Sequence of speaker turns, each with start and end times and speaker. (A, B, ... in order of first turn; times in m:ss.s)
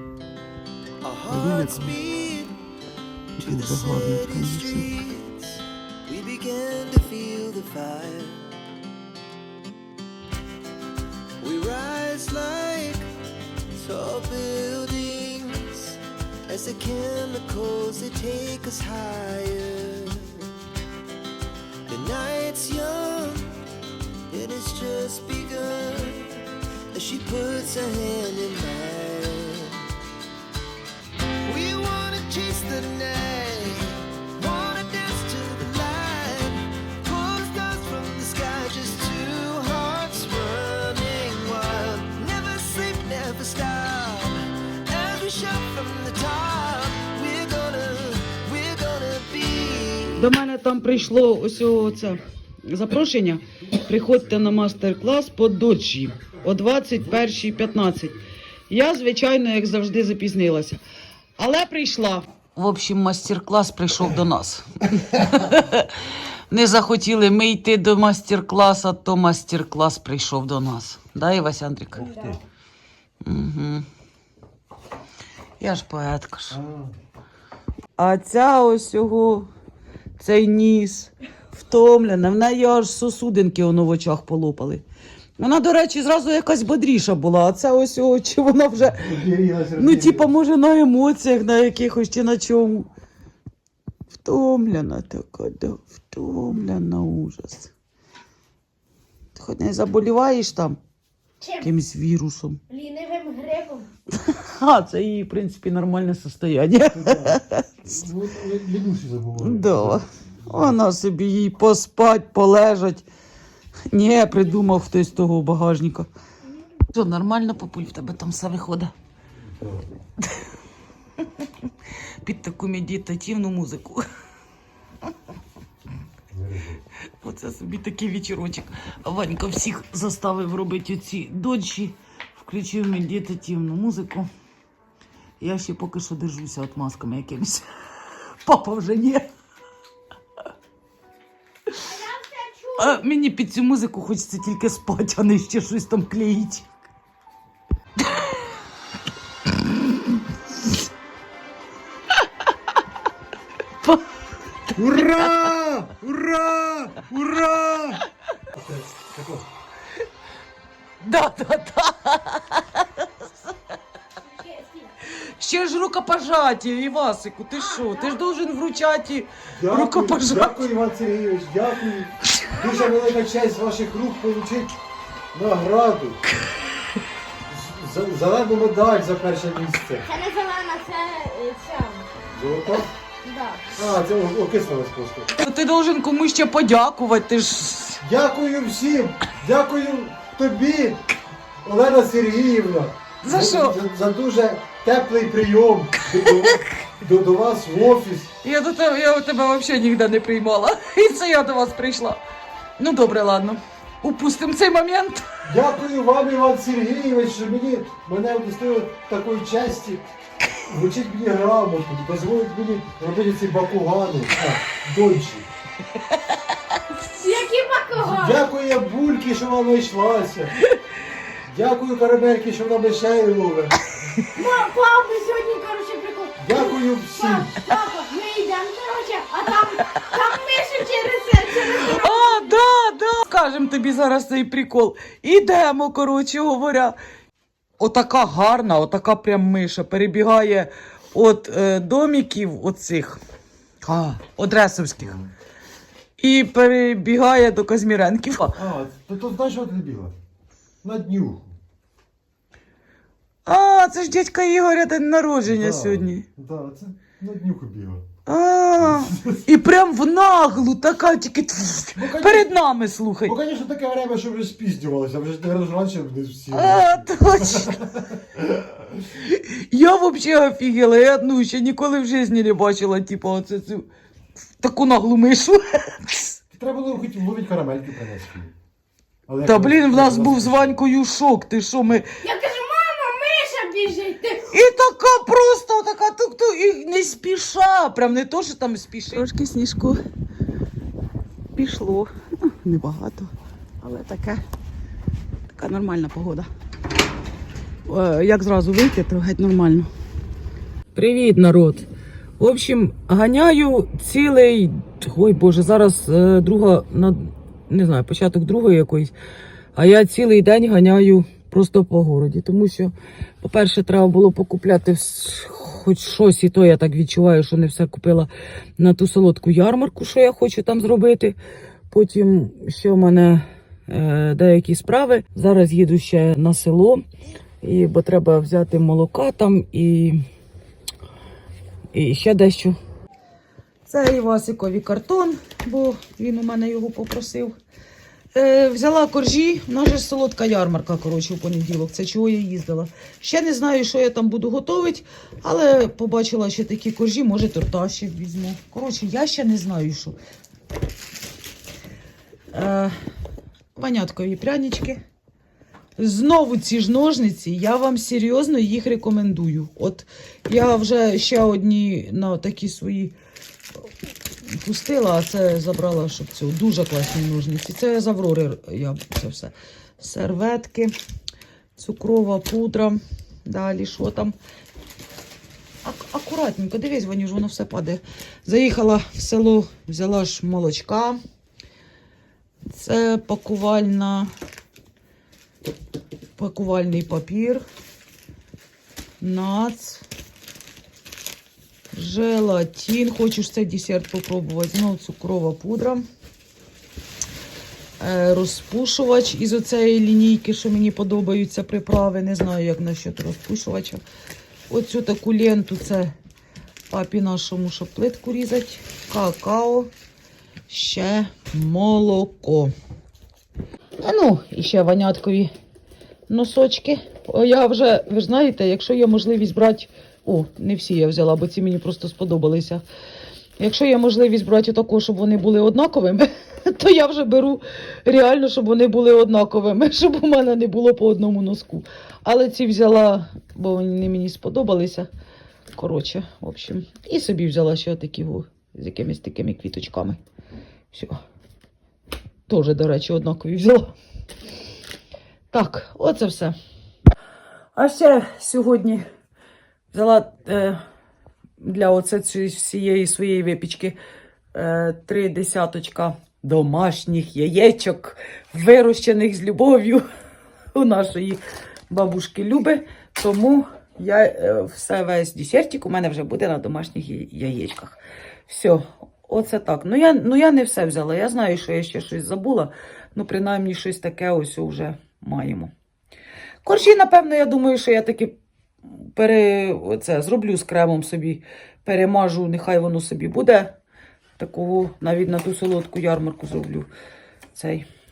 0:01.0-0:02.6 A
0:01.3-0:02.0 B
0:03.4-0:04.9 B
0:03.4-0:08.5 A
0:11.4-0:13.1 A
0:13.7-0:20.5 A
0:21.9-0:23.5 A
0:24.3-0:29.8 A
0:31.4-0:50.2 A
0:50.2-1:00.8 B
1:01.4-1:05.9 B
1:06.5-1:12.1 B
1:12.0-1:12.4 C
1:12.0-1:12.4 D
1:13.2-1:13.9 B
1:15.6-1:16.6 B
1:16.5-1:17.0 D
1:18.0-1:19.5 B
1:20.2-1:24.8 B
1:25.4-1:29.2 B
1:28.9-1:30.3 D
1:29.8-1:32.9 B
1:34.1-1:37.7 B
1:39.4-1:40.8 B
1:41.4-1:41.7 C
1:41.6-1:42.6 B
1:42.7-1:43.9 C
1:44.1-1:47.9 B
1:46.9-1:50.0 D
1:49.4-1:53.0 B
1:53.9-1:56.1 B
1:56.9-1:58.9 B
1:59.6-1:59.9 D
2:02.2-2:04.0 B
2:06.3-2:06.8 D
2:07.2-2:14.3 B
2:15.4-2:17.7 B
2:18.4-2:19.3 B
2:21.8-2:23.0 C
2:22.8-2:26.7 B
2:28.0-2:28.5 B
2:29.7-2:30.7 B
2:34.8-2:39.5 D
2:41.0-2:43.5 B
2:44.4-2:44.9 C
2:45.1-2:50.7 B
2:47.7-2:48.2 C
2:49.6-2:54.8 D
2:55.3-2:56.2 D
2:57.5-3:00.1 D
3:00.0-3:02.1 C
3:02.3-3:02.9 D
3:03.2-3:03.6 C
3:03.8-3:05.3 D
3:05.4-3:08.0 B
3:08.0-3:11.1 D
3:11.6-3:18.3 D
3:13.2-3:13.8 B
3:16.2-3:16.6 B
3:18.4-3:22.2 B
3:22.8-3:25.3 B
3:25.4-3:30.0 D
3:30.6-3:35.5 D
3:37.0-3:38.4 C
3:37.9-3:40.6 D
3:41.4-3:43.8 D
3:44.3-3:52.5 C
3:46.4-3:47.6 D
3:51.8-3:57.0 B
3:57.8-4:03.2 B
4:03.8-4:05.2 B
4:05.0-4:05.3 D
4:06.2-4:08.6 B
4:08.6-4:10.2 D
4:10.8-4:11.6 D
4:13.5-4:16.2 B
4:15.4-4:18.1 D
4:18.3-4:23.4 B
4:18.8-4:19.4 D
4:22.0-4:22.5 D
4:23.2-4:28.4 D
4:26.5-4:27.8 B
4:29.0-4:33.9 B
4:34.6-4:36.4 B
4:36.5-4:38.5 D
4:39.3-4:40.8 D
4:39.4-4:42.1 B
4:42.2-4:44.5 C
4:44.5-4:50.0 B
4:51.5-4:54.4 B
4:55.5-4:56.5 B
4:57.9-4:59.9 B
5:00.9-5:01.9 B
5:02.4-5:09.1 B
5:09.8-5:21.4 B
5:21.9-5:27.0 B
5:27.6-5:30.2 B
5:31.9-5:32.8 B
5:33.9-5:37.6 B
5:38.3-5:50.2 B
5:52.5-5:53.0 B
5:53.8-5:55.0 B
5:56.0-6:03.2 B
6:04.4-6:11.0 B
6:11.8-6:14.4 B
6:15.8-6:21.2 B
6:22.7-6:24.3 B
6:26.4-6:27.6 B
6:29.2-6:30.0 B
6:31.9-6:36.0 B
6:38.0-6:44.0 B
6:44.7-6:46.1 B
6:46.9-6:49.9 B
6:50.7-6:52.7 B
6:54.0-6:55.5 B
6:56.3-7:02.8 B
7:03.6-7:15.1 B
7:15.8-7:20.2 B
7:20.9-7:21.2 B
7:22.5-7:23.9 B
7:25.5-7:26.6 B
7:27.8-7:29.0 B
7:29.9-7:30.8 B
7:31.6-7:34.0 B
7:34.5-7:40.0 B
7:40.8-7:55.7 B
7:56.6-7:58.4 B
7:59.0-8:03.8 B
8:04.4-8:06.9 B
8:07.5-8:07.8 B